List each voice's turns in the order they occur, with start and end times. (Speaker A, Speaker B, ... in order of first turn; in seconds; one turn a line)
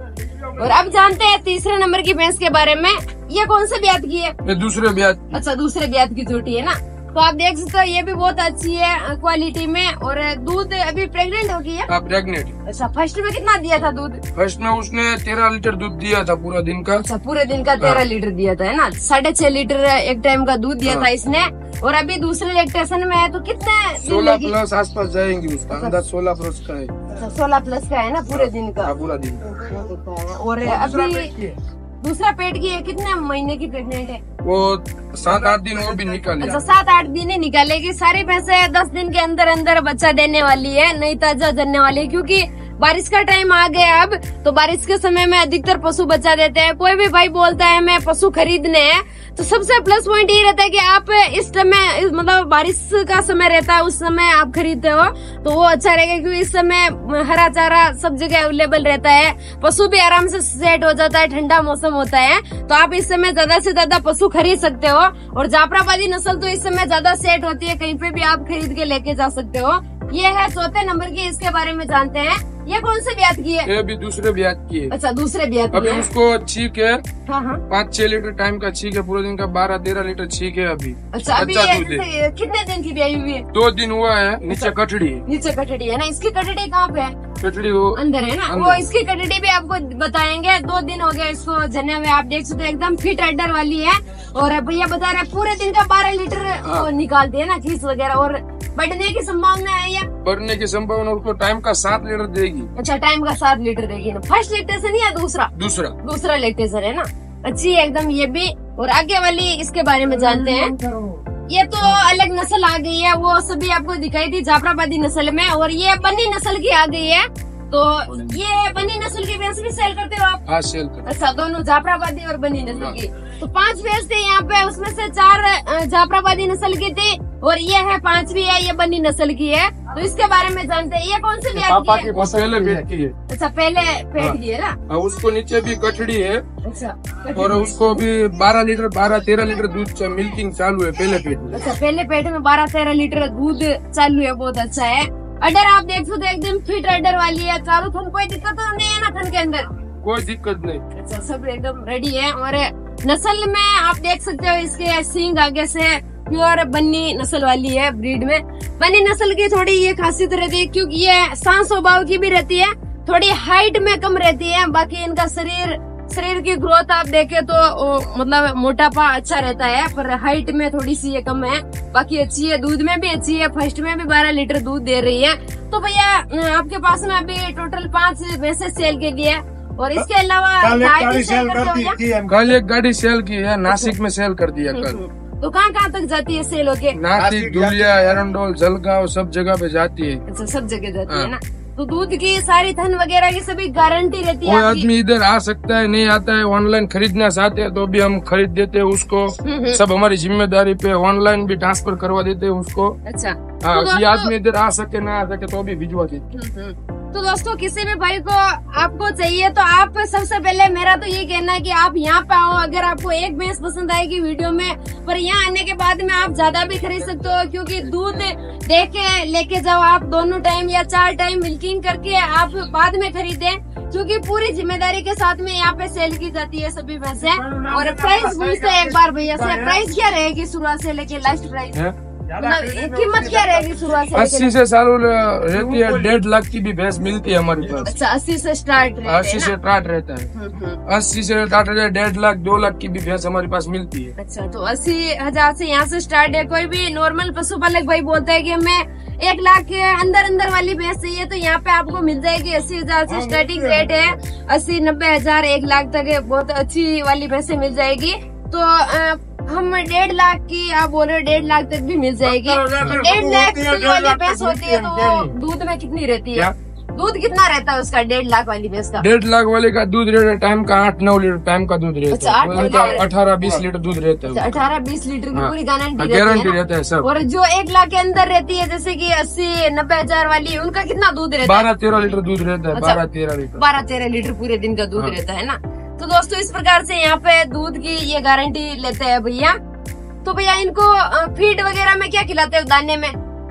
Speaker A: 0.6-4.3
Speaker B: 4.4-5.3
Speaker A: 5.3-11.9
Speaker B: 11.9-12.6
Speaker A: 12.7-14.2
Speaker B: 14.3-17.0
Speaker A: 17.0-24.6
Speaker B: 17.8-18.1
Speaker B: 24.0-26.9
Speaker A: 27.1-28.9
Speaker B: 28.3-29.4
Speaker C: 29.5-29.9
Speaker A: 29.6-31.3
Speaker C: 30.6-31.6
Speaker A: 32.0-34.2
Speaker B: 34.4-36.6
Speaker C: 35.2-36.6
Speaker A: 36.4-73.7
Speaker B: 73.7-74.9
Speaker A: 74.9-76.1
Speaker B: 75.7-77.0
Speaker A: 77.3-77.6
Speaker B: 77.7-82.1
Speaker A: 81.1-83.5
Speaker B: 83.5-85.2
Speaker A: 85.3-87.2
Speaker B: 87.4-88.8
Speaker A: 88.0-100.1
Speaker B: 96.7-96.9
Speaker B: 100.2-102.7
Speaker A: 102.8-105.5
Speaker B: 105.5-106.0
Speaker A: 106.0-110.7
Speaker C: 110.2-111.2
Speaker A: 111.5-120.4
Speaker B: 120.5-121.1
Speaker A: 121.0-132.1
Speaker B: 122.7-123.0
Speaker B: 131.5-133.2
Speaker A: 133.3-134.8
Speaker B: 134.9-136.4
Speaker A: 136.6-138.0
Speaker B: 137.3-141.6
Speaker A: 141.5-149.7
Speaker B: 150.0-150.8
Speaker A: 150.9-182.0
Speaker C: 180.6-182.5
Speaker B: 182.3-185.0
Speaker A: 183.7-183.9
Speaker A: 184.7-187.0
Speaker B: 186.9-190.2
Speaker C: 187.1-188.2
Speaker A: 190.3-194.9
Speaker B: 191.1-191.3
Speaker B: 194.4-203.0
Speaker A: 199.4-199.8
Speaker A: 203.1-204.3
Speaker B: 203.6-206.2
Speaker A: 206.3-231.8
Speaker C: 227.2-229.9
Speaker C: 232.3-234.2
Speaker A: 232.4-234.5
Speaker B: 234.1-237.9
Speaker C: 235.5-236.1
Speaker A: 237.8-239.5
Speaker B: 239.1-240.3
Speaker A: 240.3-240.8
Speaker B: 240.9-244.1
Speaker A: 244.2-269.1
Speaker C: 253.1-254.0
Speaker C: 262.2-265.3
Speaker B: 262.8-263.0
Speaker B: 269.0-274.6
Speaker A: 272.1-273.1
Speaker A: 274.3-281.7
Speaker B: 275.3-277.1
Speaker B: 281.4-283.6
Speaker A: 282.7-283.0
Speaker A: 283.6-289.6
Speaker A: 290.2-293.1